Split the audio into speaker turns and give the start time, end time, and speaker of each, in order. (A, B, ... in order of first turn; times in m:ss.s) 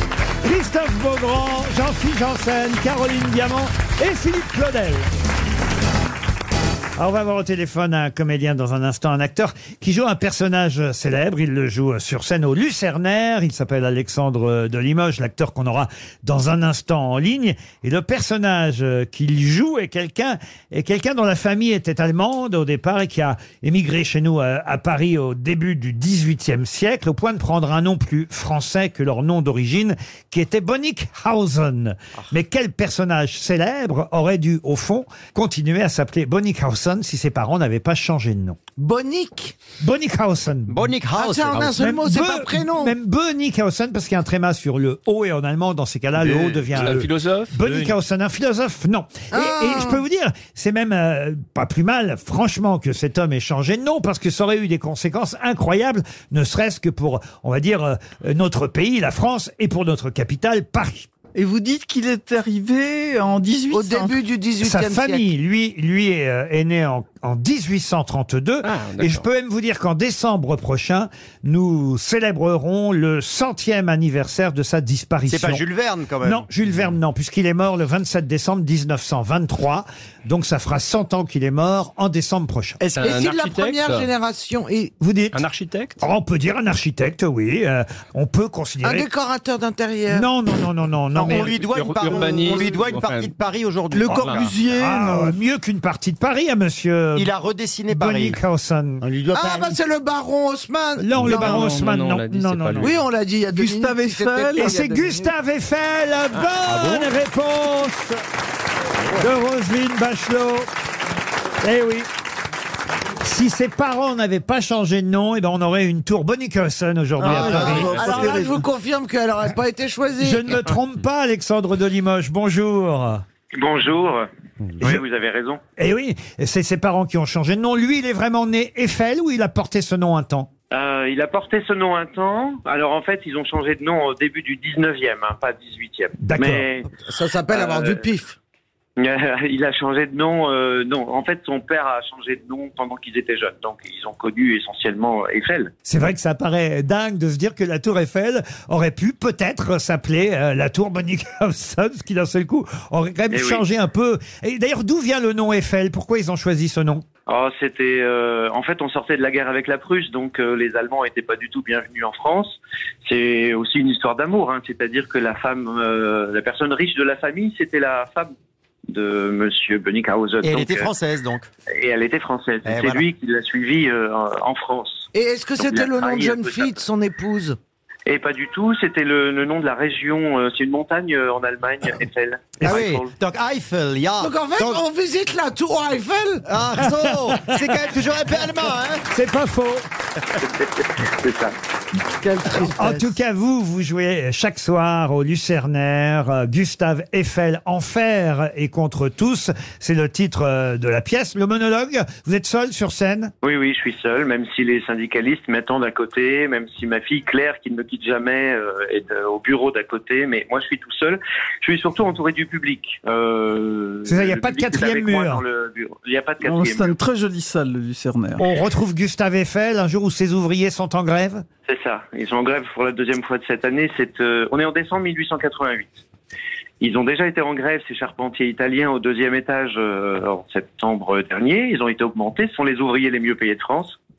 0:00.4-0:05.1 A
0:07.0-0:38.6 A
0:38.8-0:39.6 B
0:39.8-0:40.9 A
0:40.7-0:41.9 C
0:41.1-0:42.9 B
0:41.7-1:01.1 A
0:46.2-0:46.7 C
0:46.7-0:47.9 D
0:49.3-0:50.0 B
1:01.3-1:04.1 E
1:03.7-1:05.3 B
1:04.6-1:15.6 A
1:08.6-1:09.2 D
1:15.2-1:16.4 C
1:16.2-1:22.8 A
1:22.8-1:23.2 C
1:22.9-1:24.1 D
1:23.0-1:24.9 B
1:25.0-1:25.4 A
1:25.3-1:26.0 D
1:26.0-1:29.0 A
1:28.8-1:30.3 B
1:30.1-1:31.6 A
1:31.1-1:34.6 C
1:31.4-1:33.4 D
1:33.9-1:35.3 E
1:34.0-1:34.4 D
1:34.0-1:37.3 A
1:37.2-1:38.4 C
1:37.9-1:39.0 A
1:39.0-1:39.7 C
1:39.3-1:41.8 B
1:41.0-1:42.9 A
1:41.1-1:43.0 D
1:42.8-1:45.3 B
1:43.5-1:44.8 E
1:44.6-1:48.2 A
1:46.3-1:47.1 D
1:49.1-1:50.7 A
1:51.6-1:52.1 A
1:53.2-1:58.5 A
1:57.2-2:00.4 B
1:57.2-1:58.6 C
2:00.2-2:03.2 A
2:03.5-2:04.2 F
2:04.8-2:05.6 F
2:05.8-2:10.5 A
2:10.7-2:16.9 F
2:16.2-2:16.6 A
2:16.9-2:18.4 B
2:17.5-2:18.0 F
2:19.0-2:25.7 F
2:25.8-2:37.0 A
2:33.3-2:33.6 F
2:37.3-2:48.3 F
2:48.9-2:50.9 F
2:50.4-2:51.5 C
2:51.7-2:56.8 F
2:52.6-2:53.0 C
2:55.1-2:57.6 B
2:58.0-3:03.1 F
3:02.6-3:04.8 C
3:04.2-3:06.4 B
3:06.4-3:09.0 C
3:06.8-3:07.9 A
3:09.0-3:09.8 A
3:10.4-3:11.5 F
3:12.2-3:13.1 B
3:12.6-3:23.3 A
3:23.4-3:37.0 F
3:34.0-3:35.4 A
3:36.4-3:38.4 E
3:38.4-3:41.4 A
3:41.7-3:46.0 F
3:46.8-3:54.0 F